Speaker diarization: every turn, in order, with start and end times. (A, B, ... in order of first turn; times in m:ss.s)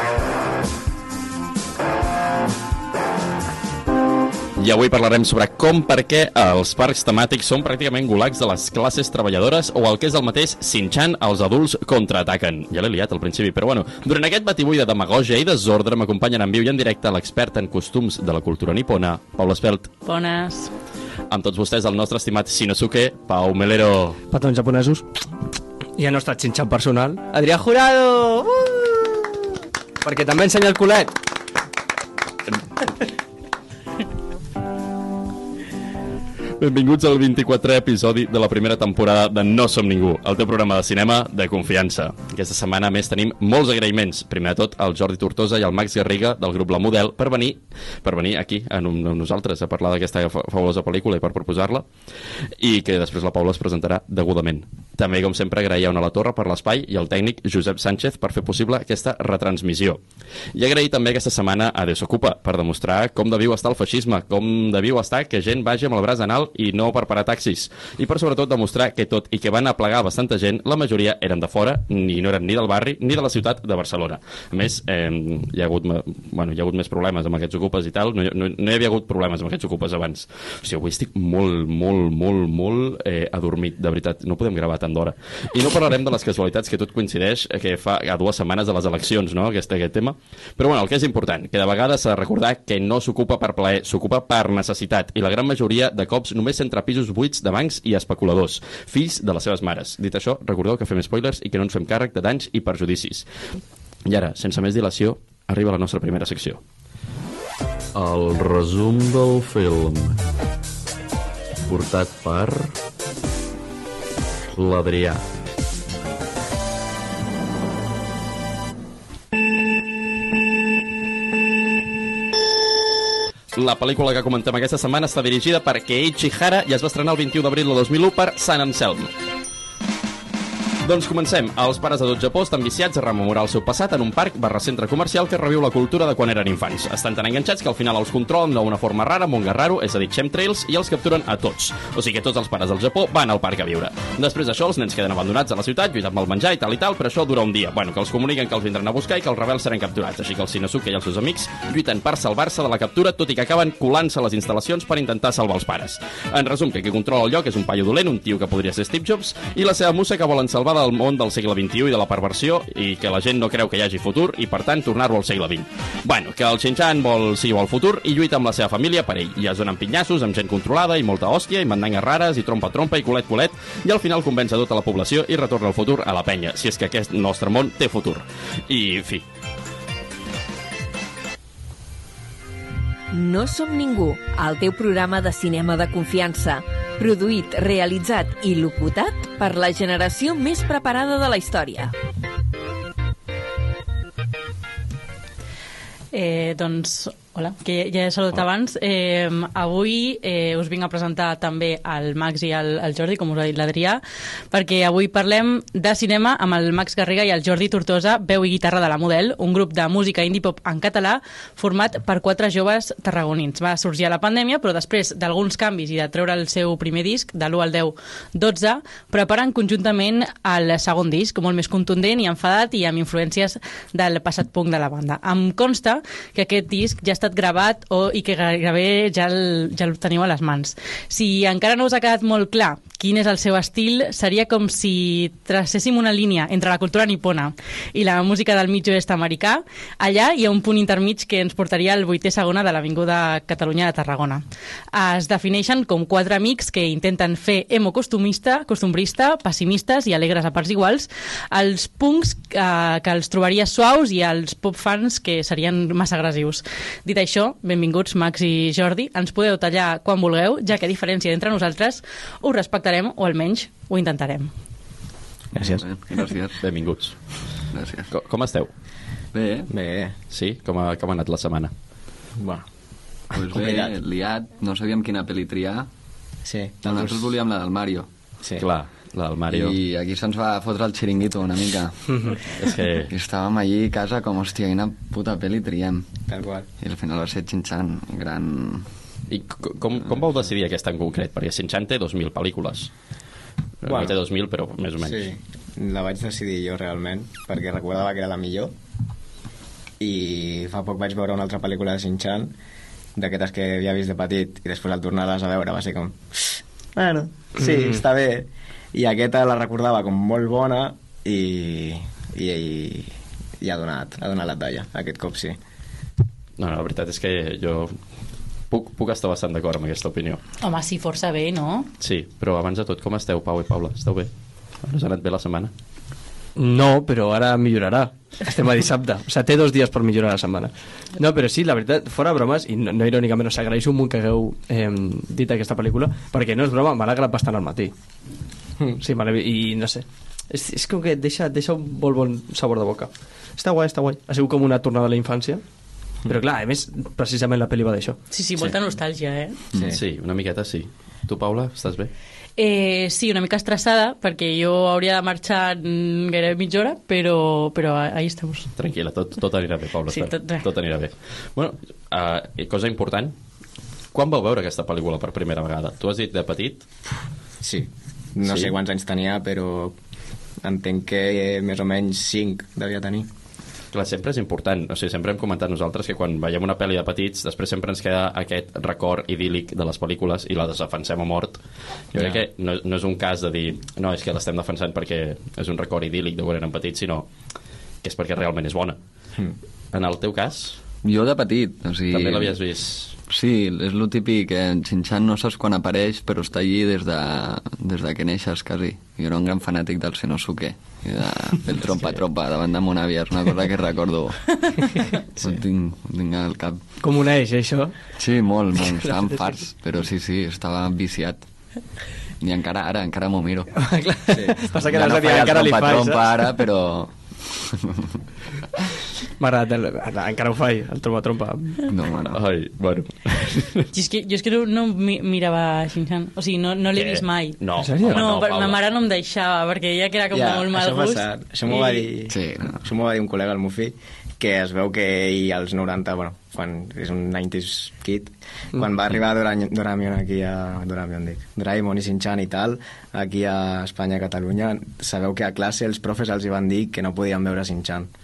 0:04.6-0:19.9 A
0:20.0-0:20.7 B
0:21.3-0:24.2 A
0:24.3-0:25.1 C
0:26.0-0:29.4 C
0:30.0-0:31.2 C
0:36.6-0:51.9 A
0:52.6-1:00.0 A
1:00.5-1:43.3 A
1:44.1-1:46.6 A
1:48.0-1:50.2 A
1:51.7-1:52.8 A
1:54.6-1:55.2 A
2:03.6-2:09.1 A
2:10.8-2:59.2 A
3:03.1-3:11.9 D
3:16.1-4:24.5 B
4:25.5-4:25.8 E
4:25.6-4:26.6 F
4:26.6-4:27.2 A
4:27.7-4:28.1 F
4:28.1-4:28.7 A
4:29.3-4:29.7 F
4:29.7-4:30.2 E
4:30.3-4:31.7 A
4:32.4-4:32.7 E
4:33.3-4:35.9 F
4:33.4-4:34.0 E
4:36.4-4:37.3 E
4:36.9-4:38.1 F
4:38.6-4:39.8 A
4:39.5-4:42.3 F
4:42.1-4:42.4 C
4:42.5-4:43.1 A
4:43.1-4:46.1 F
4:46.3-4:46.7 E
4:46.8-4:48.9 F
4:49.3-4:52.9 A
4:53.8-4:55.3 A
4:53.9-4:54.2 E
4:55.0-4:58.7 E
5:00.0-5:02.5 E
5:03.2-5:15.6 E
5:16.6-5:18.0 A
5:18.7-5:20.4 A
5:20.6-5:21.9 B
5:22.0-5:24.3 A
5:24.8-5:25.7 A
5:26.6-5:37.9 C
5:39.0-5:45.6 C
5:46.3-5:48.2 C
5:48.3-5:49.6 B
5:49.7-5:50.0 E
5:49.9-5:52.1 A
5:52.6-5:58.7 B
5:58.8-6:03.3 A
6:00.1-6:00.6 B
6:04.1-6:06.9 A
6:07.6-6:10.0 E
6:08.4-6:08.7 A
6:10.6-6:13.3 E
6:13.9-6:21.6 A
6:22.1-6:27.3 A
6:22.2-6:22.4 E
6:28.0-6:29.0 A
6:29.9-6:30.8 A
6:31.0-6:32.6 F
6:32.1-6:33.2 A
6:33.3-6:46.8 F
6:47.0-6:48.0 C
6:48.2-6:51.4 F
6:49.0-6:49.4 C
6:52.4-6:53.7 F
6:53.7-6:56.6 C
6:54.3-6:54.6 E
6:54.8-6:58.2 F
6:59.4-7:01.9 C
7:01.9-7:02.4 F
7:02.3-7:03.9 A
7:03.9-7:12.1 B
7:07.0-7:08.8 A
7:07.8-7:08.3 C
7:10.3-7:28.1 E
7:12.3-7:12.8 F